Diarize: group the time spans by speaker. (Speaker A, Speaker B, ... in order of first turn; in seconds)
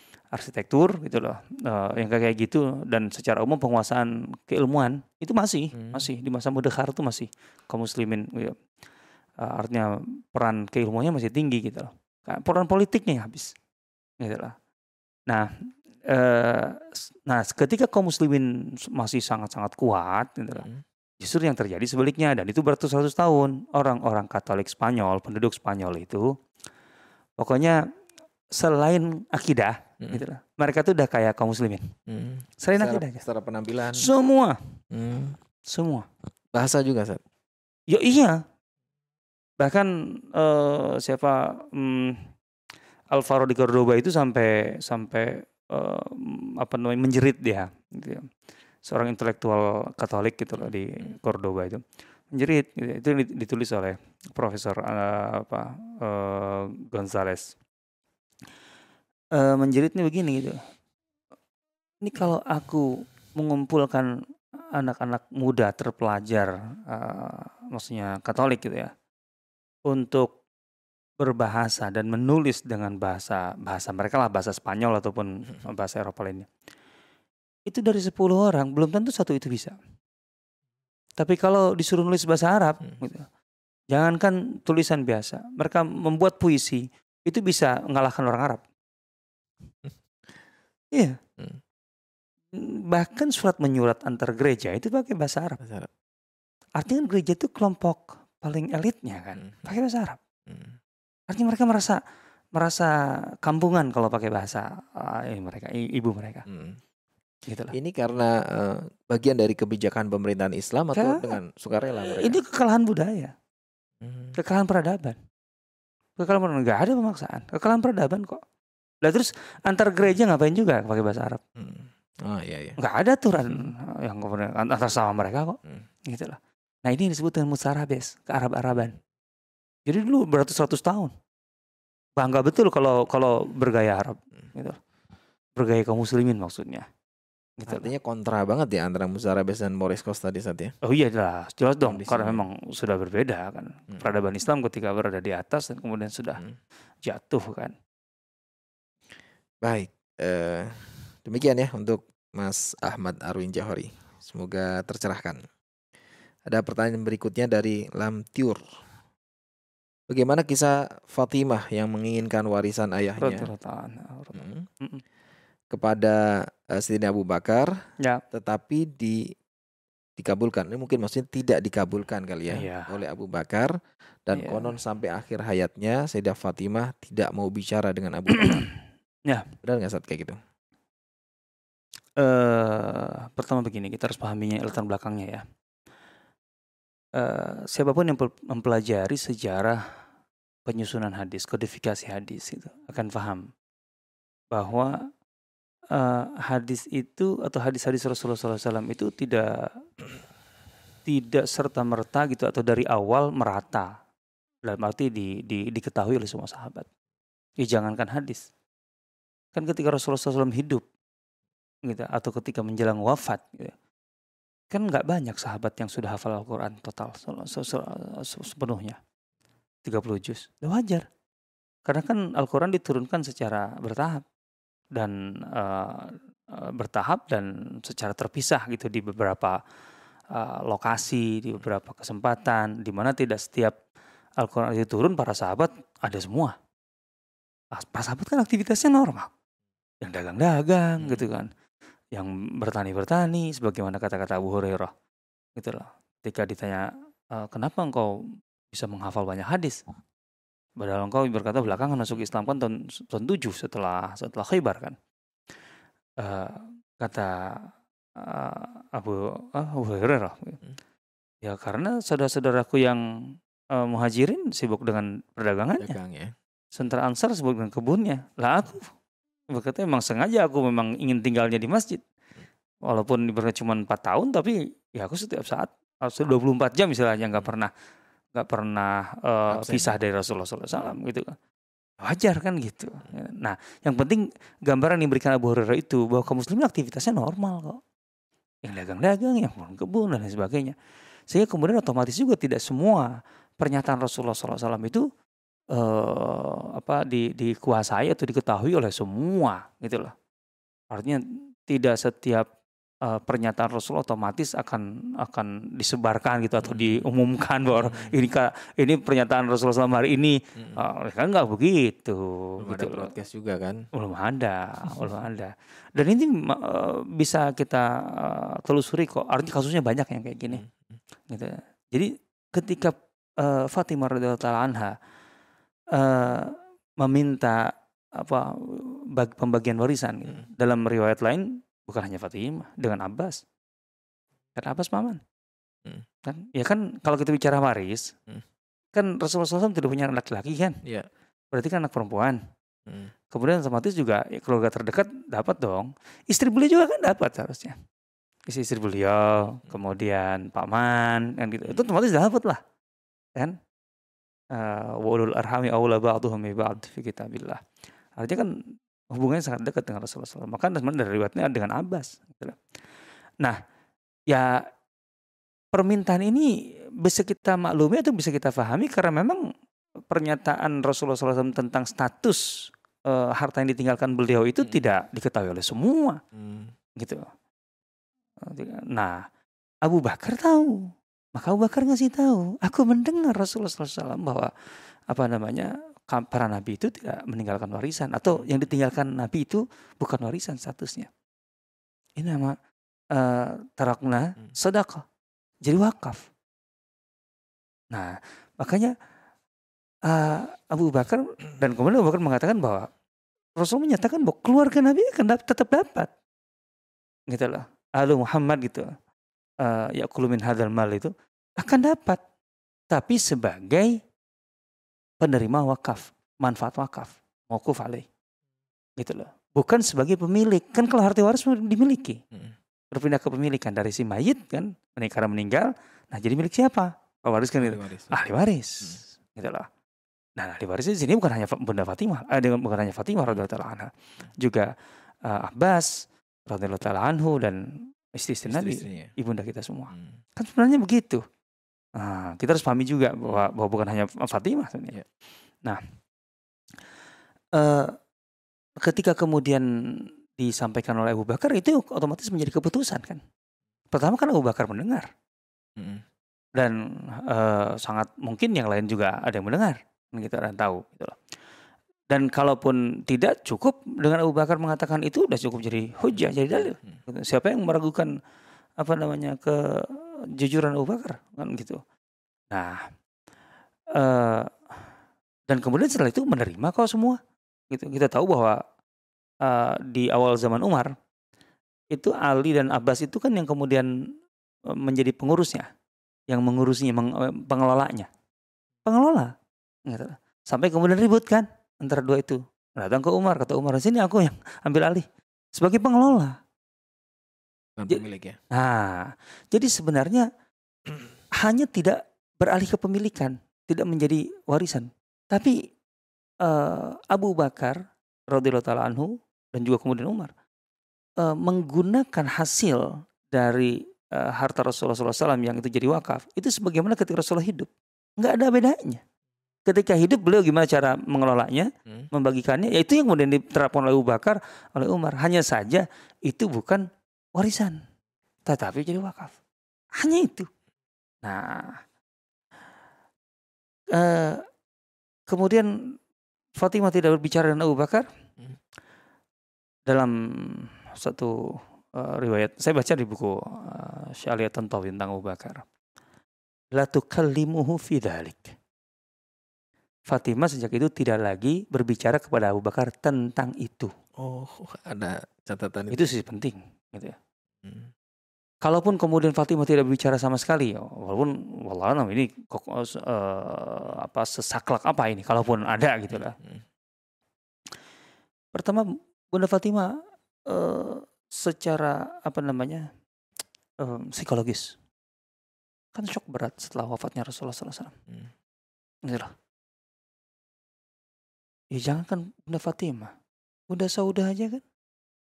Speaker A: 0.3-8.6, 9.4-13.5, 14.2-14.5, 16.1-20.7, 21.2-26.3, 27.4-27.8, 28.5-31.9, 32.6-33.2, 33.9-34.6, 35.7-36.1, 37.9-38.4, 39.6-42.3, 43.1-48.3, 48.8-57.6, 59.3-60.6, 62.0-64.1, 64.7-68.9, 69.9-70.4, 71.2-76.5, 77.7-79.7, 81.2-83.3, 83.9-88.6, 90.9-91.2, 92.5-95.6, 96.8-100.2, 101.3-102.0, 102.5-106.4, 107.5-107.7, 110.9-111.3, 111.9-113.3, 114.3-115.2, 116.2-118.4, 119.0-121.4, 122.8-129.0, 129.9-131.1, 132.2-134.8, 135.6-136.9, 137.6-137.9, 140.8-146.4, 147.0-147.7, 163.2-165.0, 172.5-172.9, 174.3-174.7, 178.3-178.7, 182.2-185.4, 187.1-189.8, 190.7-193.5, 194.5-195.0, 195.9-199.8, 201.1-203.9, 204.7-206.9, 207.6-208.5, 209.5-210.8, 211.8-213.7, 214.7-219.0, 219.8-221.1, 221.8-224.2, 224.9-229.6, 230.3-233.7, 234.4-236.6, 237.7-239.3, 240.0-241.5, 242.1-244.9, 245.6-248.1, 248.7-249.8, 250.8-254.9, 256.2-260.6, 261.4-265.9, 266.7-268.9, 269.5-272.0, 272.9-277.7, 278.3-281.4, 282.0-287.8, 288.6-290.8, 291.3-295.1, 295.7-300.1, 300.9-302.5, 303.0-313.1, 313.9-320.6, 321.3-324.9, 325.9-333.4, 334.5-335.2, 336.2-338.1, 338.9-340.8, 341.5-342.4, 343.3-347.8, 348.5-352.6, 354.5-357.6, 358.2-358.5, 359.1-362.6, 364.3-364.7, 365.7-369.4, 370.1-372.4, 373.1-376.2, 377.0-377.3, 378.4-379.2, 379.8-384.5, 385.1-391.1, 392.2-392.6, 393.1-395.0, 395.6-396.2, 397.9-398.9, 400.1-402.9, 403.6-406.1, 407.3-408.9, 409.6-412.2, 412.9-414.0, 415.2-418.1, 419.0-422.2, 422.9-429.7, 430.4-434.7, 435.2-435.9, 436.5-441.2, 441.9-445.0, 447.5-448.0, 448.8-453.2, 453.9-455.1, 456.6-461.2, 462.1-468.1, 468.8-471.8, 472.5-472.9, 473.9-474.5, 475.5-477.2, 477.7-478.6, 479.4-480.9, 481.9-483.9, 484.7-485.7, 486.3-488.1, 488.8-489.3, 489.9-496.4, 497.9-500.3, 501.3-505.6, 506.4-510.3, 511.2-519.0, 519.7-527.8, 528.5-529.3, 530.0-530.5, 531.2-531.8, 533.9-534.5, 535.3-535.7, 536.6-538.1, 539.9-545.6, 546.7-548.5, 550.1-553.9, 555.9-557.2, 558.6-566.4, 568.5-572.9, 573.8-574.8, 575.9-578.0, 579.0-579.3, 581.7-583.1, 583.7-584.6
Speaker B: 5.7-6.1, 20.6-20.8, 32.1-34.1, 34.9-35.4, 36.5-37.2, 95.6-95.9, 99.4-99.7, 100.5-100.8, 106.5-106.8, 107.7-112.4, 114.0-114.3, 121.5-122.8, 137.7-140.7, 141.8-142.5, 149.6-155.4, 156.5-158.6, 160.1-163.5, 164.3-164.7, 165.7-167.8, 168.3-169.3, 170.2-173.7, 174.2-178.7, 179.6-180.4, 241.0-241.3, 251.6-252.4, 265.8-266.3, 279.5-280.0, 306.6-307.1, 307.7-308.1, 312.6-313.8, 320.5-321.0, 342.9-343.1, 376.3-376.7, 427.6-428.2, 438.5-439.1, 455.8-456.0, 466.1-467.0, 497.8-498.4, 554.2-556.1, 557.6-557.9, 566.1-566.6